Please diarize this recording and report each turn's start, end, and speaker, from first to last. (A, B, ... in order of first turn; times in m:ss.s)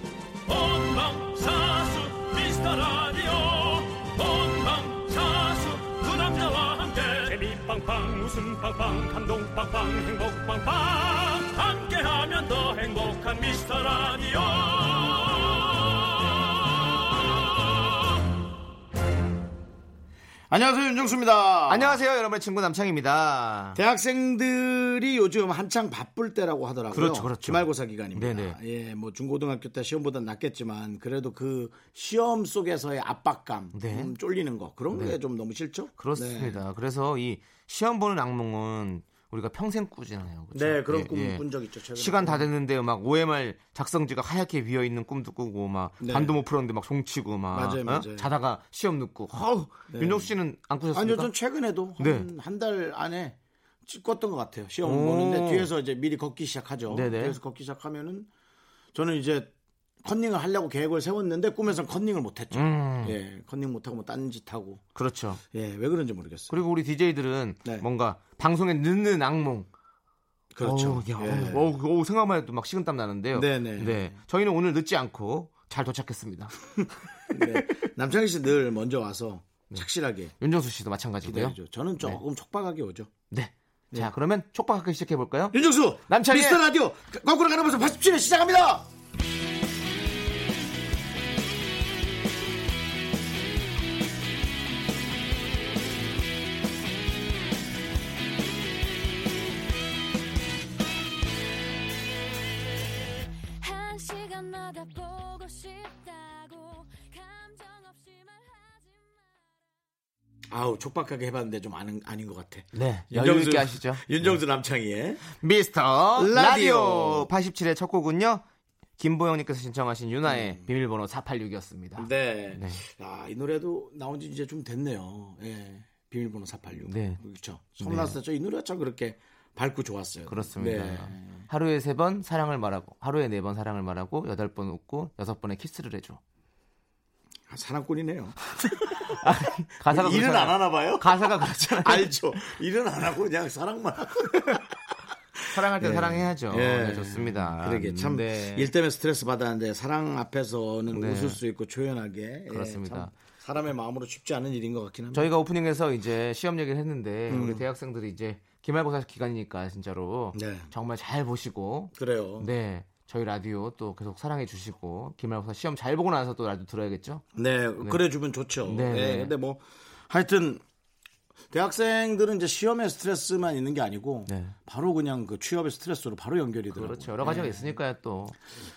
0:00.5-0:16.9 A
0:20.5-0:22.0 B
0:21.7-0:23.8 C
0:23.8-0:36.6 B
0:26.9-0:28.6 C
0:33.7-0:34.1 C
0:34.9-0:35.2 C
0:36.0-0:41.4 C
0:40.5-0:42.5 B
0:42.0-0:51.3 C
0:46.0-0:46.4 B
0:47.5-0:48.3 B
0:49.9-0:50.3 B
0:50.9-0:58.3 B
0:52.0-0:52.3 C
0:54.8-0:55.7 C
0:56.9-0:57.4 C
0:58.9-0:59.5 B
1:00.0-1:04.8 B
1:02.5-1:03.2 C
1:05.0-1:05.4 C
1:05.5-1:06.6 B
1:06.5-1:09.7 C
1:10.5-1:11.7 B
1:10.6-1:16.6 C
1:13.3-1:14.2 B
1:17.3-1:20.3 B
1:20.4-1:22.2 C
1:21.2-1:23.1 B
1:23.3-1:26.6 C
1:25.5-1:28.9 B
1:43.6-1:49.8 D
1:50.5-1:55.2 B
1:52.7-1:54.4 C
1:55.4-1:58.4 C
1:56.2-1:57.3 B
1:59.0-2:02.8 C
2:00.3-2:00.6 B
2:02.0-2:11.5 B
2:06.9-2:07.2 C
2:07.8-2:08.2 C
2:10.2-2:16.2 C
2:17.5-2:19.3 B
2:18.7-2:22.1 C
2:19.9-2:35.3 B
2:25.5-2:28.7 C
2:30.9-2:31.4 C
2:32.5-2:33.1 C
2:35.1-2:47.2 C
2:37.3-2:37.7 B
2:40.3-2:40.7 B
2:42.0-2:42.5 B
2:47.4-2:50.6 B
2:48.6-2:49.3 C
2:51.5-2:57.7 B
2:54.3-2:54.6 C
2:56.7-2:58.4 C